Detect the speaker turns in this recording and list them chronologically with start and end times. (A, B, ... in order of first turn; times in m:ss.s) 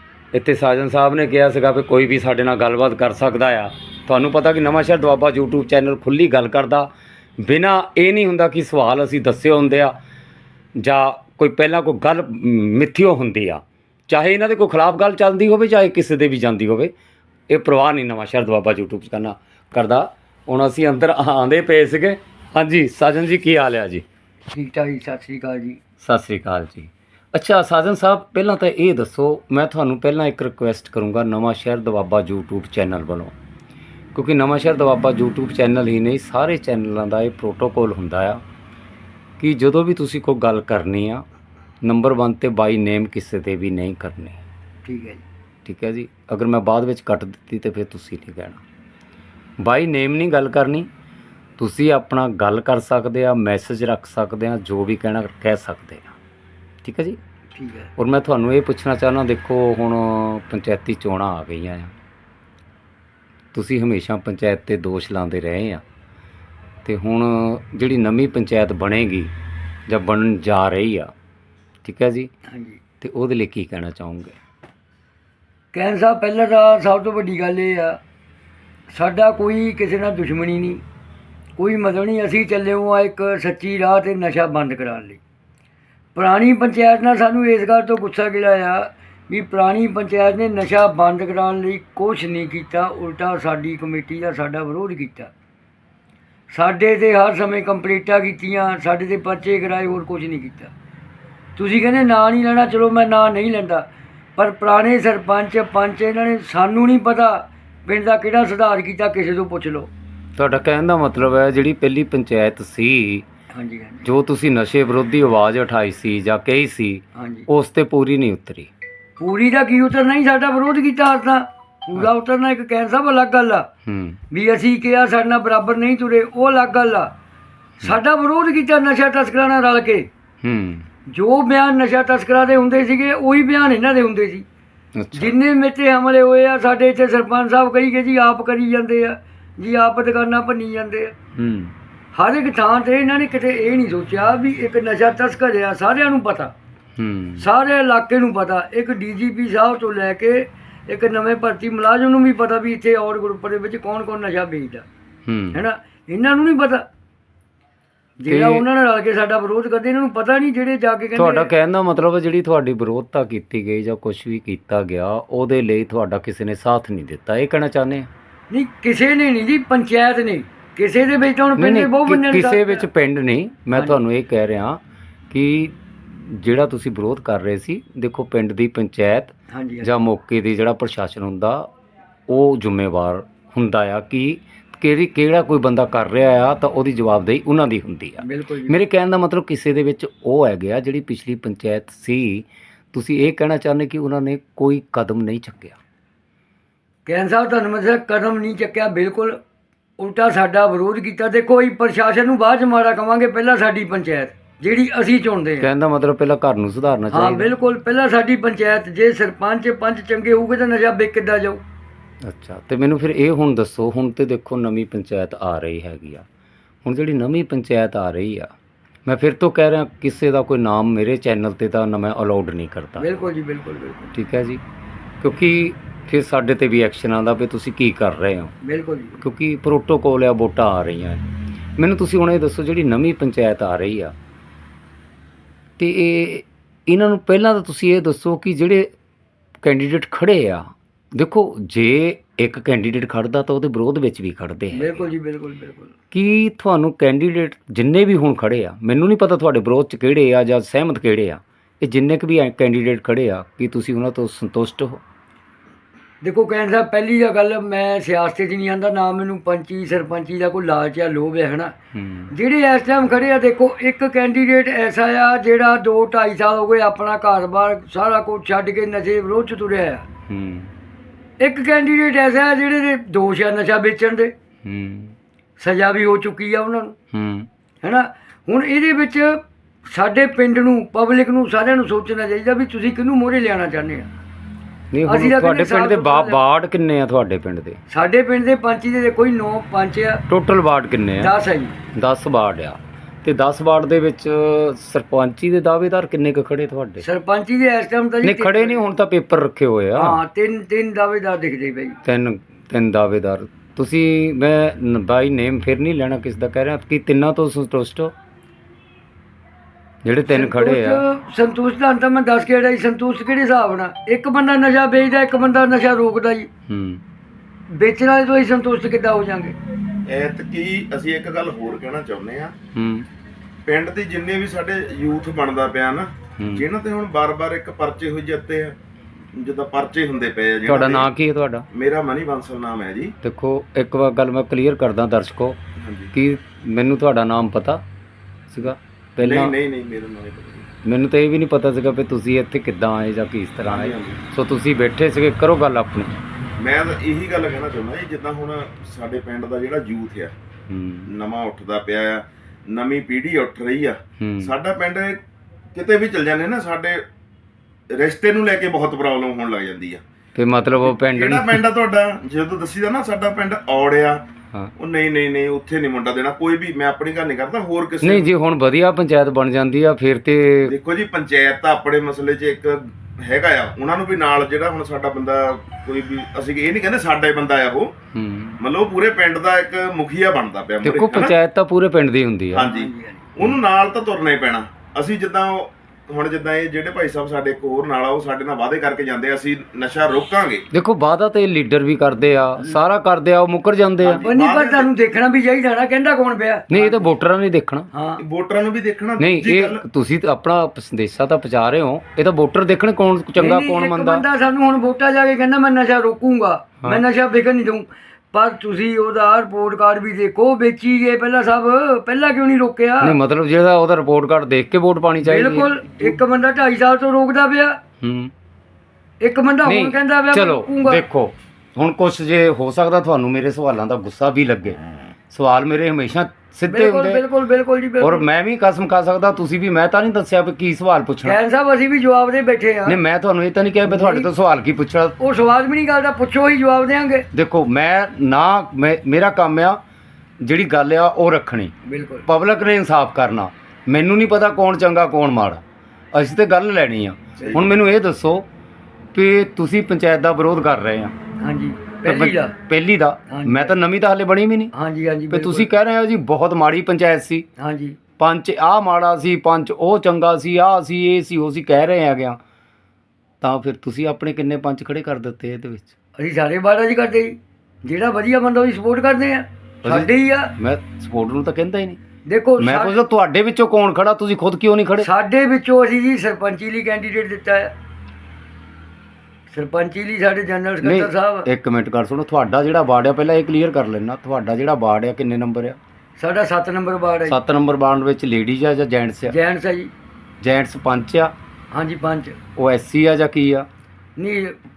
0:00.3-0:09.9 A
0:10.8-0:16.9 A
0:17.5-0:24.0 A
0:24.5-0:25.8 B
0:26.0-0:33.3 A
0:34.1-0:38.4 A
0:39.4-0:41.2 A
0:41.8-0:44.4 A
0:44.8-0:45.2 B
0:45.6-0:48.6 A
0:49.6-0:50.9 A
0:51.6-0:56.1 A
0:56.8-0:57.2 A
0:57.5-0:57.9 B
0:58.0-1:01.9 A
1:03.5-1:05.8 A
1:06.8-1:09.3 A
1:09.9-1:11.1 A
1:11.8-1:12.3 A
1:12.5-1:12.8 B
1:13.0-1:14.4 A
1:15.7-1:18.0 B
1:18.9-1:20.8 B
1:21.6-1:25.2 B
1:26.1-1:35.3 B
1:36.5-1:40.7 B
1:41.6-1:43.8 B
1:44.4-1:49.9 B
1:50.4-1:53.2 A
1:53.5-1:54.0 B
1:54.0-1:58.7 A
1:57.2-1:57.5 B
1:59.2-2:03.7 B
2:03.8-2:04.2 A
2:04.3-2:07.1 B
2:07.8-2:10.1 B
2:10.4-2:10.8 A
2:11.1-2:14.4 B
2:15.0-2:15.3 A
2:15.1-2:21.1 B
2:21.4-2:21.7 A
2:22.1-2:26.5 B
2:27.0-2:27.5 A
2:27.4-2:34.8 B
2:35.3-2:35.6 A
2:35.5-2:36.8 B
2:38.2-2:41.5 B
2:38.3-2:38.6 A
2:41.2-2:48.1 A
2:48.5-2:52.8 B
2:51.6-3:01.7 A
2:53.7-2:54.0 B
2:59.5-2:59.9 B
3:02.3-3:15.8 A
3:08.2-3:08.8 B
3:17.0-3:19.4 B
3:20.0-3:25.7 B
3:25.6-3:27.5 A
3:27.1-3:31.6 B
3:32.2-3:36.2 A
3:36.8-3:38.5 A
3:39.0-3:43.1 A
3:43.0-3:44.1 B
3:44.1-3:44.6 A
3:45.2-3:48.5 A
3:48.6-3:49.2 B
3:49.2-3:51.2 A
3:51.8-3:54.1 A
3:55.8-3:58.9 A
3:59.6-4:05.0 A
4:04.7-4:05.9 B
4:06.1-4:15.0 A
4:16.2-4:21.7 B
4:21.9-4:22.3 A
4:22.3-4:30.0 B
4:30.3-4:30.7 A
4:31.4-4:34.3 B
4:34.6-4:35.1 A
4:35.6-4:37.0 B
4:37.1-4:37.5 A
4:37.8-4:44.1 B
4:44.9-4:47.8 A
4:45.0-4:46.4 B
4:47.9-4:50.2 B
4:50.3-4:51.3 A
4:51.2-4:51.8 B
4:51.9-4:57.0 A
4:57.0-4:58.8 B
4:58.2-5:00.2 A
4:59.9-5:02.0 B
5:02.0-5:08.1 A
5:10.0-5:11.0 A
5:10.3-5:16.5 B
5:16.7-5:17.0 A
5:17.7-5:19.6 B
5:20.0-5:22.5 C
5:22.7-5:23.1 A
5:23.6-5:28.8 C
5:26.4-5:26.6 A
5:29.3-5:31.1 C
5:30.7-5:31.6 A
5:31.7-5:33.1 C
5:33.2-5:35.6 A
5:35.8-5:36.1 C
5:36.1-5:37.8 A
5:38.5-5:39.5 A
5:39.2-5:40.7 C
5:40.8-5:46.2 A
5:43.7-5:44.2 C
5:46.6-5:50.3 C
5:50.7-5:51.1 A
5:51.1-5:55.2 C
5:54.2-5:54.5 A
5:55.7-5:57.0 C
5:57.9-6:00.0 C
6:00.4-6:01.6 A
6:00.8-6:04.2 C
6:04.8-6:08.3 C
6:08.0-6:10.7 A
6:10.6-6:17.9 C
6:18.1-6:18.6 A
6:18.6-6:21.3 C
6:20.8-6:22.7 A
6:22.5-6:30.6 C
6:22.6-6:23.2 B
6:30.7-6:34.3 A
6:34.0-6:34.9 C
6:34.2-6:37.1 B
6:36.7-6:37.9 A
6:37.9-6:38.2 B
6:38.2-6:39.8 C
6:39.2-6:44.2 A
6:43.4-6:53.2 B
6:53.0-6:56.2 A
6:55.2-6:57.8 B
6:58.0-6:58.3 A
6:59.2-7:01.0 B
6:59.6-7:04.8 A
7:05.3-7:07.2 A
7:06.7-7:08.2 B
7:08.0-7:11.4 A
7:11.2-7:13.0 B
7:12.8-7:15.2 A
7:13.8-7:14.3 B
7:15.2-7:17.3 B
7:17.3-7:19.8 A
7:20.4-7:21.7 A
7:21.8-7:22.3 B
7:22.2-7:25.6 A
7:26.1-7:28.4 A
7:29.1-7:31.1 A
7:31.4-7:32.5 B
7:32.0-7:34.7 A
7:33.3-7:33.8 B
7:34.7-7:35.7 B
7:35.3-7:37.4 A
7:37.6-7:38.0 B
7:38.2-7:42.4 A
7:43.4-7:45.9 A
7:46.2-7:50.5 B
7:49.8-7:52.0 A
7:52.3-7:53.0 B
7:52.6-7:55.1 A
7:55.0-7:57.7 B
7:59.5-8:01.5 B
8:00.8-8:05.8 A
8:06.2-8:07.4 B
8:07.3-8:09.3 A
8:09.3-8:09.9 B
8:10.4-8:11.3 A
8:11.7-8:12.4 B
8:12.6-8:13.7 A
8:14.2-8:14.6 B